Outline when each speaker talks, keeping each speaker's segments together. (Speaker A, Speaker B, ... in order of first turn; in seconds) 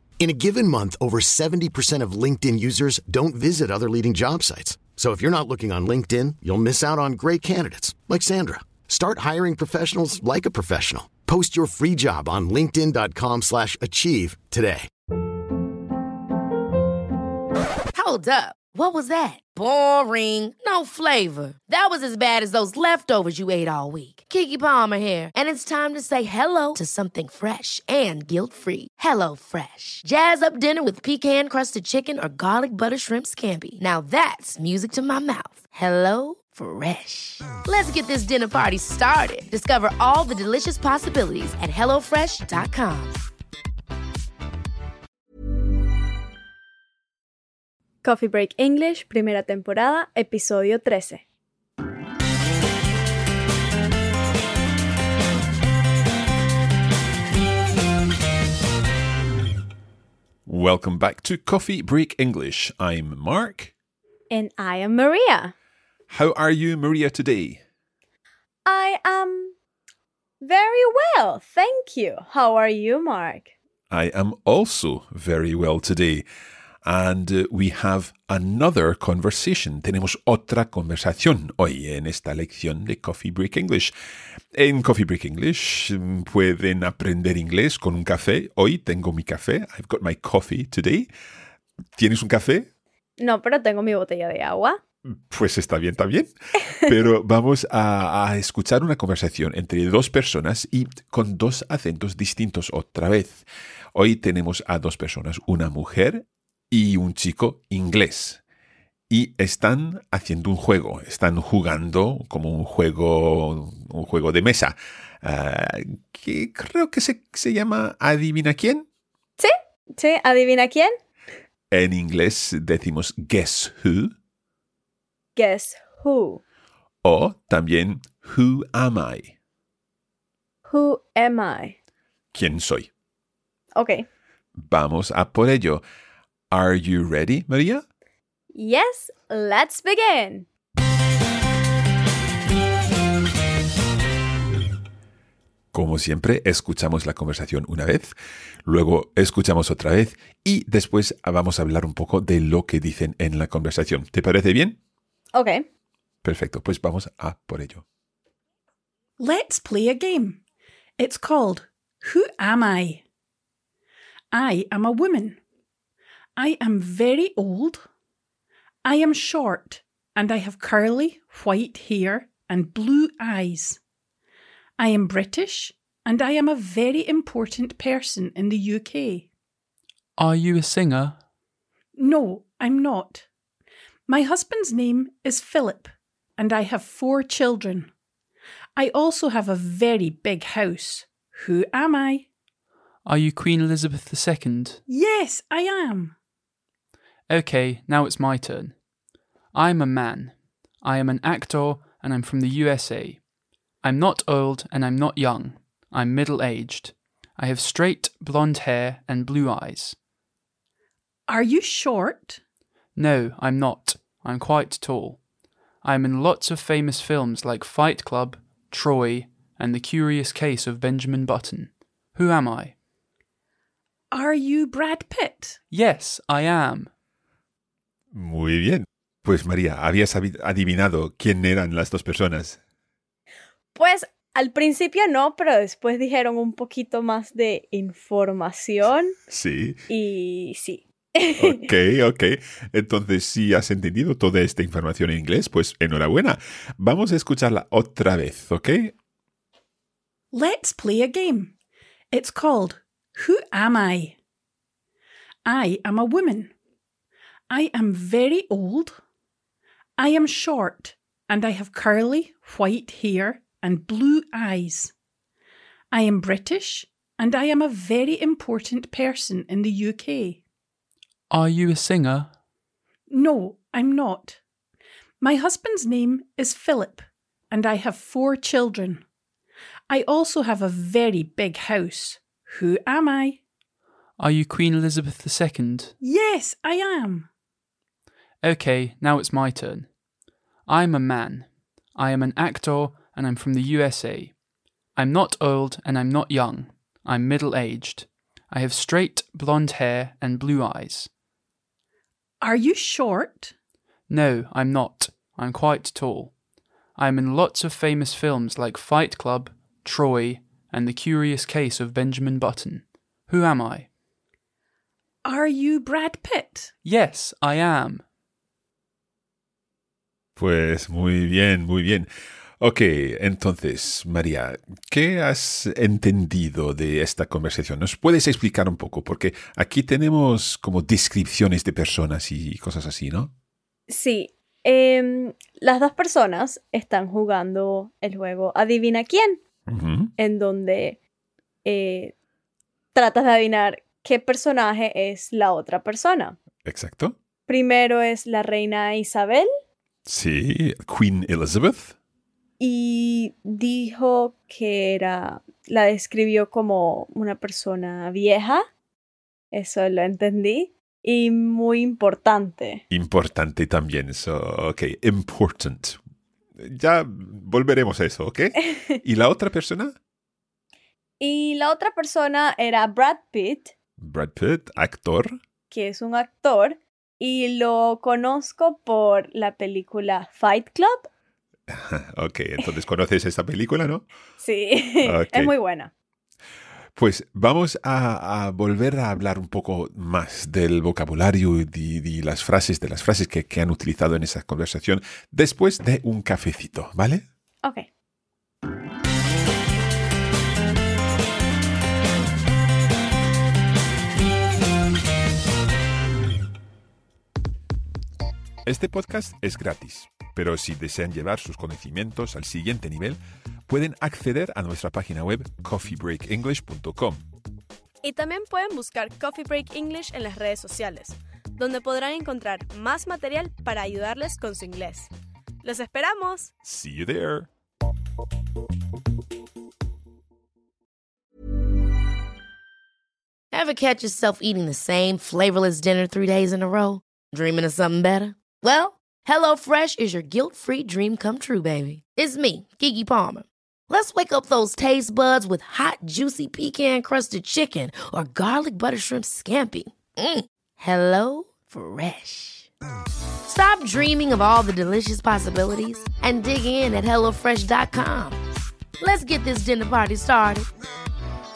Speaker A: 0.2-14.9
Speaker B: 17.9-43.2, 433.5-452.7, 453.4-458.4, 459.0-460.7
Speaker C: 48.0-51.2, 64.3-65.5, 68.7-69.5, 70.4-73.5, 93.2-94.8, 119.4-120.9, 125.3-126.4, 130.7-131.7, 133.8-134.1, 138.5-140.5, 155.3-155.6, 233.7-239.1, 239.9-241.6, 333.9-339.4, 340.2-341.0, 341.6-342.1, 342.9-346.4, 347.5-349.5, 352.6-358.6, 359.5-362.8, 371.2-373.7, 375.7-381.1, 384.4-385.9, 397.6-397.9
Speaker D: 60.5-63.7, 66.1-67.6, 73.9-76.2, 76.8-83.9, 84.5-91.1, 92.0-92.7, 95.3-108.4, 109.1-118.8, 121.7-124.1, 127.0-129.3, 132.3-132.9, 134.6-135.8, 136.5-137.8, 145.7-148.1, 148.6-154.8, 156.2-157.8, 228.1-232.6, 239.3-239.8, 241.4-248.9, 320.4-322.1, 322.6-333.3, 339.7-340.1, 346.6-347.1, 350.1-351.9, 362.9-366.0, 366.6-369.9, 374.0-375.4, 381.7-384.0, 385.0-385.5, 386.9-397.2, 408.6-417.2, 426.6-427.5
Speaker E: 159.2-160.4, 161.0-163.0, 164.3-165.4, 166.4-167.8, 168.8-173.8, 174.8-179.3, 181.9-183.2, 184.1-187.9, 188.8-192.3, 194.9-196.1, 211.3-212.4, 224.1-225.6, 250.3-251.5, 252.1-254.1, 255.4-256.5, 257.5-259.0, 260.0-264.9, 265.9-270.4, 273.1-274.4, 275.2-279.0, 279.9-283.4, 286.0-287.3, 302.4-303.5, 315.2-316.7
Speaker F: 180.2-181.2, 193.0-194.8, 197.3-198.7, 199.5-203.2, 203.8-209.9, 212.9-215.2, 215.8-222.7, 225.7-226.9, 271.3-272.3, 284.2-285.9, 288.4-289.9, 290.6-294.3, 294.9-301.1, 304.1-306.3, 306.9-313.9, 316.8-318.0
Speaker G: 418.0-425.1, 425.6-426.5